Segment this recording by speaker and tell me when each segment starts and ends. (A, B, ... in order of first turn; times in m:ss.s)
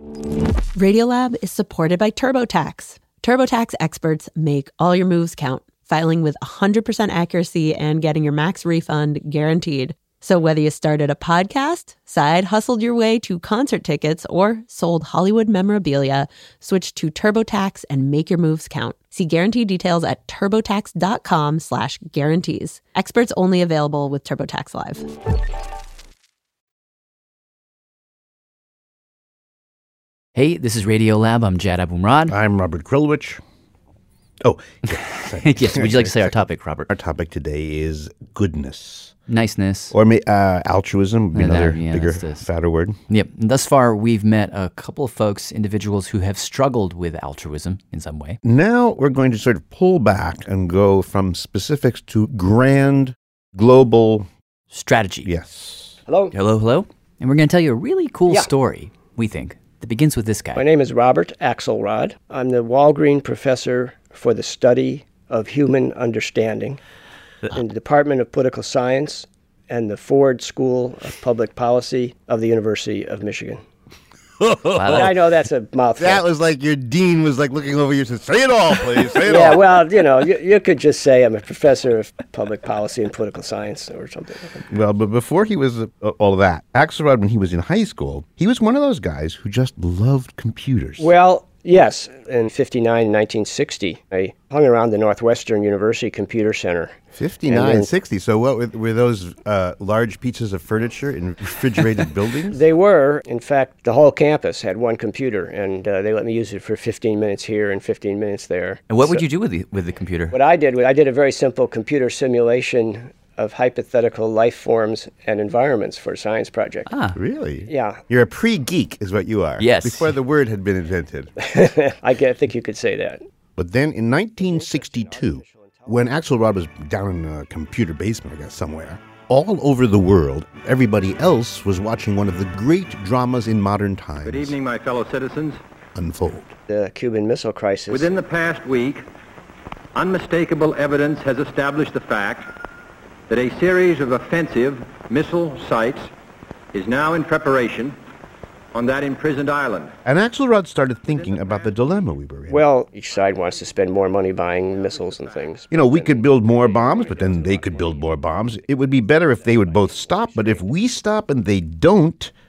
0:00.7-0:25.0 A
0:30.3-0:32.4 B
0:32.3-0:33.4 C
0:34.4-0:39.1 C
0:35.3-0:36.9 B
0:39.3-0:39.9 B
0:39.9-0:43.0 C
0:41.3-0:42.5 B
0:43.1-0:48.4 B
0:48.4-0:54.3 C
0:54.7-0:55.3 B
0:55.2-0:56.0 C
0:56.1-0:56.3 D
0:56.3-1:00.7 B
1:00.5-1:06.8 D
1:07.5-1:13.6 D
1:14.4-1:15.1 C
1:14.7-1:15.1 B
1:14.9-1:16.2 D
1:16.0-1:19.8 C
1:19.2-1:24.6 D
1:24.7-1:31.1 C
1:31.0-1:37.9 D
1:37.1-1:42.6 C
1:42.5-1:49.2 D
1:48.9-1:50.4 B
1:50.3-1:56.9 D
1:56.9-1:57.2 B
1:57.1-2:01.3 C
1:57.7-1:58.0 D
1:59.6-2:00.2 B
2:01.4-2:03.2 D
2:03.6-2:14.6 C
2:04.4-2:06.0 D
2:14.2-2:15.6 E
2:15.9-2:16.6 C
2:16.7-2:18.1 D
2:17.9-2:19.0 E
2:19.9-2:22.5 E
2:23.3-2:26.1 E
2:26.7-2:28.0 E
2:28.7-2:30.0 E
2:30.0-2:32.6 C
2:32.5-2:38.0 D
2:35.7-2:42.3 C
2:39.4-2:40.6 D